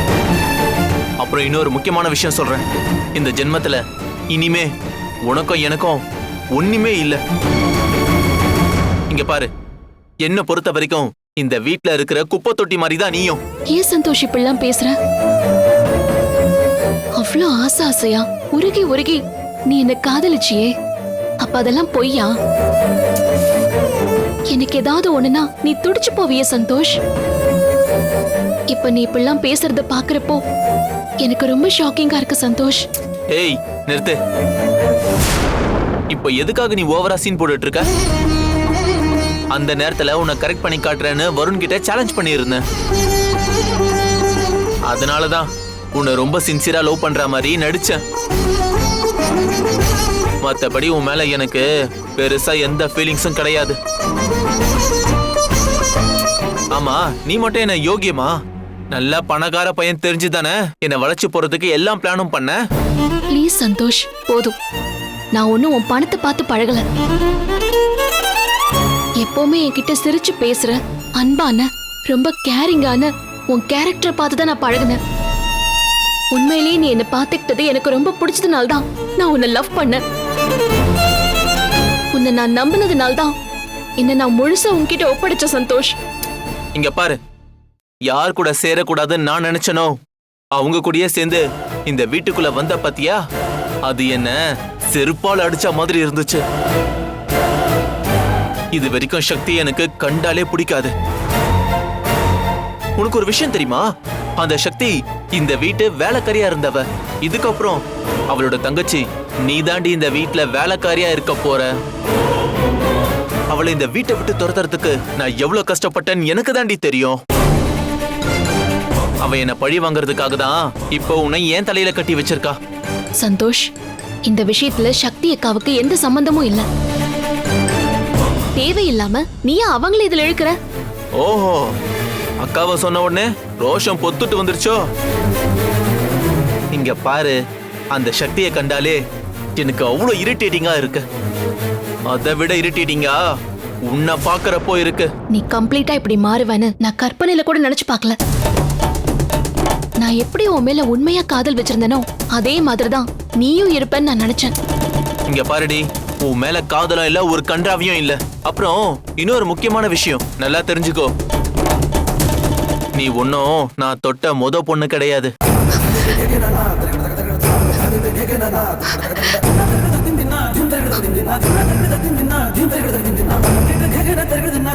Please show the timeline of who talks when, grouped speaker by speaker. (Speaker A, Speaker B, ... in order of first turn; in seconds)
Speaker A: 1.2-4.7, 5.2-6.0, 6.5-7.2, 9.1-9.5, 10.2-13.4, 33.3-34.2, 36.1-37.9, 39.5-42.6, 44.9-48.0, 50.4-51.6, 52.2-53.8, 56.7-58.4, 58.9-62.6, 86.8-87.2, 88.1-89.9, 90.5-93.2, 93.8-94.4, 94.9-96.4, 98.7-100.9, 103.0-103.8, 104.4-111.7, 113.5-117.2, 119.2-122.5, 131.1-131.7, 132.4-134.8, 136.7-137.4, 137.9-139.0, 139.6-141.0, 142.1-143.2, 143.9-145.1, 155.3-161.1, 163.0-165.3
Speaker B: 13.7-14.9, 17.2-20.7, 21.4-22.3, 24.5-27.0, 28.7-30.4, 31.2-32.8, 63.3-64.5, 65.3-66.8, 69.2-75.0, 76.3-80.0, 82.1-83.3, 84.0-85.9, 123.2-123.7, 124.2-126.7, 128.6-130.5, 145.3-148.2, 150.0-154.5